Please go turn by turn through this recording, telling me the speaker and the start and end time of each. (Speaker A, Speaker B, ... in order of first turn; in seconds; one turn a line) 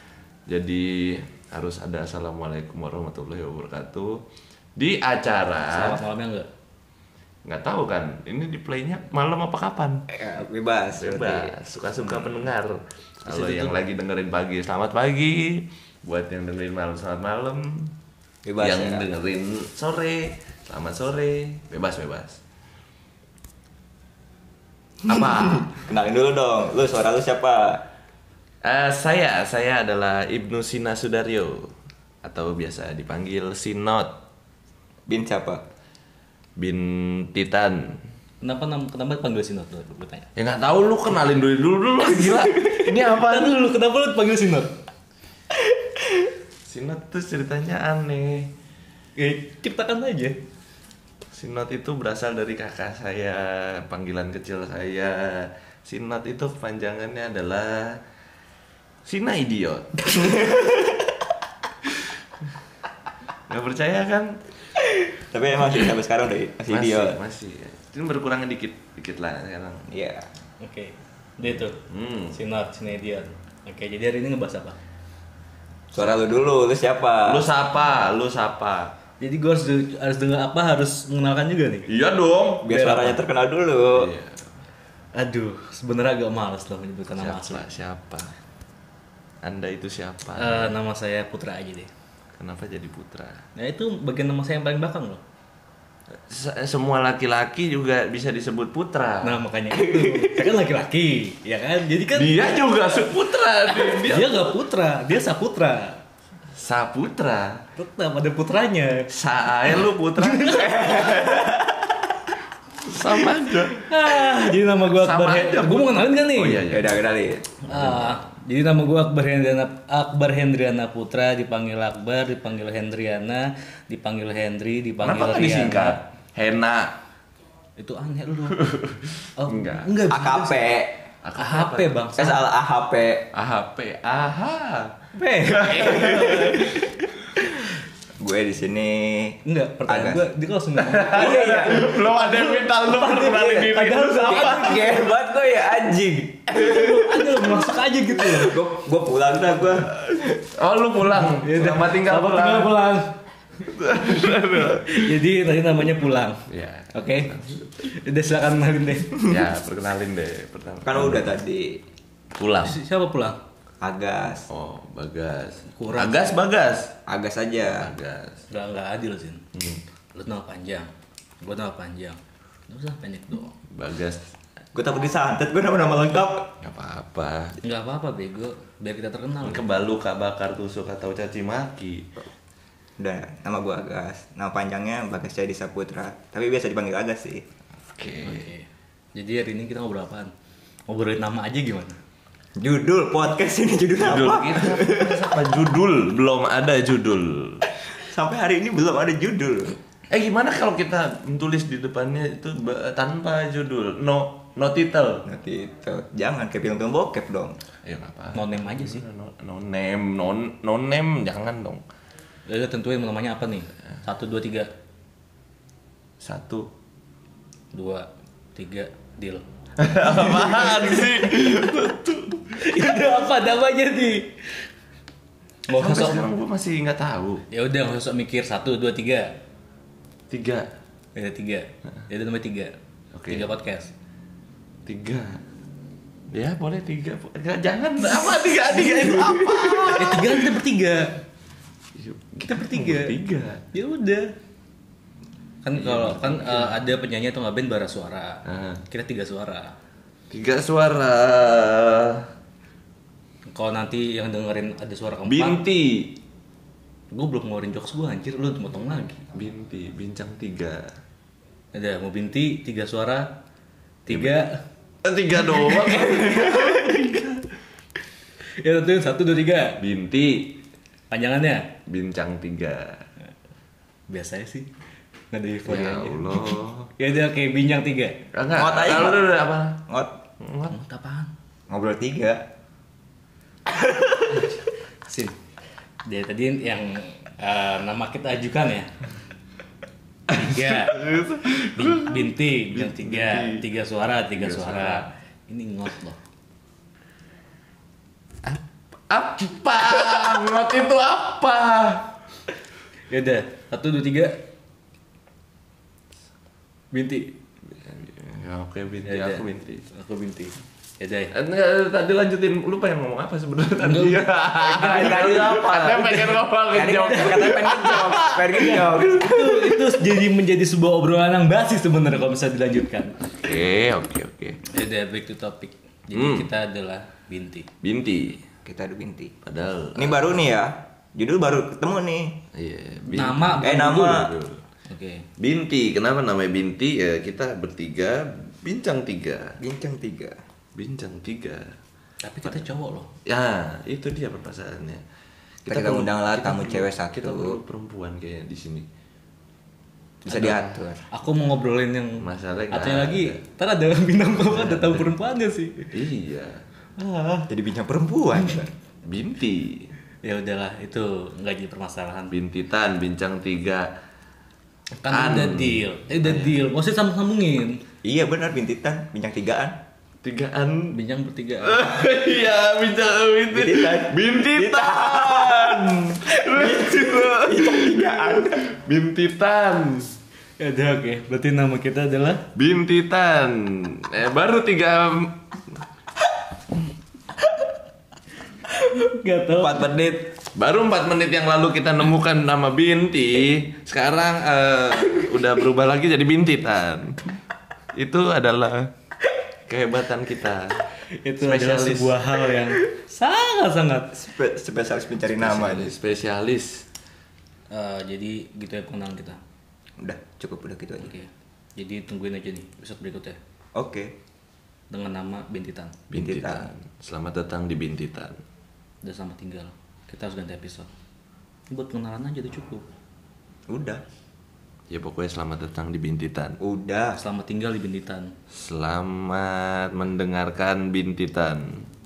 Speaker A: 0.5-4.2
Speaker A: 4.8-6.0
Speaker B: 5.7-6.5
Speaker A: 7.5-10.0
Speaker C: 10.1-11.6
Speaker A: 11.0-17.9
Speaker C: 13.3-13.8
Speaker C: 18.4-19.1
Speaker A: 18.6-22.4
Speaker A: 25.1-25.8
Speaker C: 25.6-27.8
Speaker A: 28.6-31.7
Speaker A: 32.2-34.1
Speaker C: 35.1-35.6
Speaker A: 36.6-38.0
Speaker B: 38.4-40.3
Speaker A: 40.4-43.5
Speaker B: 43.1-44.7
Speaker A: 46.7-48.5
Speaker B: 49.2-50.4
Speaker A: 51.3-58.0
Speaker A: 59.1-60.4
Speaker C: 60.1-61.1
Speaker A: 63.5-64.4
Speaker C: 64.8-67.2
Speaker A: 66.7-69.9
Speaker C: 69.9-70.3
Speaker B: 70.6-71.8
Speaker A: 71.9-72.4
Speaker B: 72.3-74.8
Speaker C: 75.9-77.5
Speaker A: 76.0-76.4
Speaker A: 77.3-79.0
Speaker B: 79.2-81.9
Speaker A: 81.9-83.1
Speaker C: 82.6-84.1
Speaker B: 82.7-83.2
Speaker A: 83.9-84.4
Speaker B: 85.2-87.7
Speaker A: 87.2-88.3
Speaker A: 89.4-90.7
Speaker B: 90.4-91.9
Speaker A: 92.4-93.4
Speaker B: 93.6-95.2
Speaker A: 96.3-99.4
Speaker B: 99.2-102.6
Speaker C: 99.7-100.5
Speaker A: 102.1-104.5
Speaker B: 103.7-106.0
Speaker A: 106.6-107.6
Speaker B: 107.8-109.1
Speaker A: 109.1-111.0
Speaker B: 110.2-111.4
Speaker C: 110.5-112.0
Speaker A: 112.9-113.8
Speaker B: 113.7-116.7
Speaker A: 114.9-116.9
Speaker C: 116.7-117.5
Speaker B: 117.6-126.0
Speaker A: 117.7-118.2
Speaker A: 125.0-127.0
Speaker B: 127.8-128.7
Speaker A: 128.6-129.9
Speaker B: 129.4-130.8
Speaker C: 130.1-131.0
Speaker A: 131.2-132.0
Speaker B: 131.4-132.4
Speaker C: 132.2-133.3
Speaker A: 133.3-134.9
Speaker C: 135.1-137.7
Speaker A: 135.5-137.0
Speaker C: 138.2-140.2
Speaker B: 139.4-145.0
Speaker A: 140.8-144.8
Speaker C: 141.1-141.9
Speaker C: 143.3-150.1
Speaker B: 146.5-148.6
Speaker A: 150.1-152.8
Speaker B: 151.3-153.2
Speaker A: 153.6-155.1
Speaker B: 154.1-157.2
Speaker A: 156.5-157.7
Speaker B: 157.8-159.3
Speaker A: 159.2-161.3
Speaker C: 160.8-161.8
Speaker A: 162.4-162.8
Speaker B: 162.6-163.4
Speaker C: 163.8-164.5
Speaker A: 164.5-167.0
Speaker B: 165.7-166.4
Speaker C: 167.1-167.9
Speaker A: 167.8-168.4
Speaker B: 168.5-169.4
Speaker A: 169.6-169.8
Speaker B: 170.1-173.5
Speaker A: 173.7-174.2
Speaker C: 174.8-176.5
Speaker A: 176.6-177.6
Speaker B: 177.6-179.6
Speaker A: 179.4-182.1
Speaker C: 183.0-187.4
Speaker A: 188.0-188.5
Speaker B: 188.2-190.3
Speaker B: 190.9-192.0
Speaker C: 192.6-195.3
Speaker A: 194.0-197.7
Speaker C: 197.9-199.8
Speaker A: 200.1-205.2
Speaker C: 205.2-207.6
Speaker A: 207.8-211.8
Speaker B: 208.3-209.1
Speaker B: 212.5-214.7
Speaker A: 216.2-216.7
Speaker B: 217.7-219.4
Speaker A: 219.8-222.5
Speaker B: 220.2-221.7
Speaker B: 222.5-224.3
Speaker B: 225.7-226.3
Speaker A: 225.7-227.4
Speaker B: 227.5-229.3
Speaker A: 230.3-230.7
Speaker B: 231.2-232.8
Speaker A: 233.2-233.5
Speaker B: 233.3-233.9
Speaker A: 234.9-235.4
Speaker A: 236.3-240.4
Speaker C: 238.8-240.2
Speaker B: 239.9-241.1
Speaker A: 242.0-243.7
Speaker B: 242.5-243.2
Speaker B: 243.7-244.3
Speaker B: 245.6-249.8
Speaker A: 245.8-246.8
Speaker A: 248.5-248.8
Speaker A: 250.3-252.3
Speaker B: 253.5-255.6
Speaker A: 255.3-256.2
Speaker B: 257.1-259.1
Speaker A: 259.3-260.9
Speaker B: 261.7-263.3
Speaker B: 264.1-264.5
Speaker A: 264.1-264.4
Speaker A: 265.0-267.4
Speaker B: 265.5-266.9
Speaker B: 268.6-269.8
Speaker A: 269.8-270.6
Speaker B: 271.1-271.7
Speaker A: 271.9-273.0
Speaker B: 274.1-274.7
Speaker B: 275.3-278.2
Speaker A: 275.7-276.9
Speaker A: 278.3-279.8
Speaker C: 278.6-279.3
Speaker C: 279.9-280.1
Speaker A: 280.4-280.8
Speaker B: 280.7-281.3
Speaker C: 281.7-282.4
Speaker C: 283.7-284.2
Speaker B: 284.3-285.4
Speaker B: 286.1-288.9
Speaker B: 290.3-291.0
Speaker A: 290.3-293.6
Speaker B: 291.8-296.2
Speaker A: 294.4-295.1
Speaker A: 298.5-302.1
Speaker B: 303.1-304.4
Speaker B: 306.9-307.3
Speaker A: 307.8-309.9
Speaker B: 309.1-311.3
Speaker A: 311.3-318.9
Speaker B: 313.8-315.6
Speaker C: 314.6-319.9
Speaker B: 318.6-323.3
Speaker A: 323.4-324.6
Speaker B: 324.7-327.7
Speaker A: 326.1-326.5
Speaker A: 327.8-328.4
Speaker C: 328.6-329.3
Speaker A: 329.4-330.4
Speaker C: 330.0-332.4
Speaker A: 332.5-334.6
Speaker B: 333.1-334.3
Speaker C: 333.6-334.3
Speaker B: 334.9-335.3
Speaker A: 335.4-339.6
Speaker C: 339.6-340.4
Speaker A: 340.8-341.7
Speaker B: 342.2-343.1
Speaker A: 343.3-345.0
Speaker A: 345.6-348.9
Speaker C: 345.7-347.6
Speaker C: 350.2-351.0
Speaker A: 350.3-350.8
Speaker B: 351.1-355.9
Speaker A: 352.2-353.4
Speaker A: 354.4-355.1
Speaker A: 355.9-356.6
Speaker B: 357.0-357.5
Speaker C: 357.5-358.7
Speaker A: 359.0-359.9
Speaker B: 360.2-362.4
Speaker A: 362.3-363.9
Speaker B: 365.0-367.8
Speaker A: 365.1-366.6
Speaker C: 368.0-369.8
Speaker A: 370.2-371.0
Speaker B: 370.9-372.0
Speaker A: 371.6-380.1
Speaker C: 373.5-378.7
Speaker B: 380.6-382.4
Speaker A: 382.6-385.4
Speaker B: 388.7-389.9
Speaker C: 389.6-390.4
Speaker A: 390.5-397.4
Speaker A: 397.9-398.9
Speaker A: 399.7-400.8
Speaker B: 401.1-404.1
Speaker A: 401.4-402.2
Speaker C: 404.1-405.9
Speaker A: 405.3-406.9
Speaker B: 407.7-409.4
Speaker C: 410.0-411.1
Speaker B: 411.0-413.4
Speaker C: 413.8-414.1
Speaker B: 414.9-416.0
Speaker A: 416.1-418.4
Speaker C: 416.1-416.7
Speaker B: 419.0-420.9
Speaker B: 421.7-422.9
Speaker C: 423.7-424.0
Speaker A: 424.9-426.6
Speaker C: 426.6-427.2
Speaker B: 427.2-428.3
Speaker A: 428.6-431.9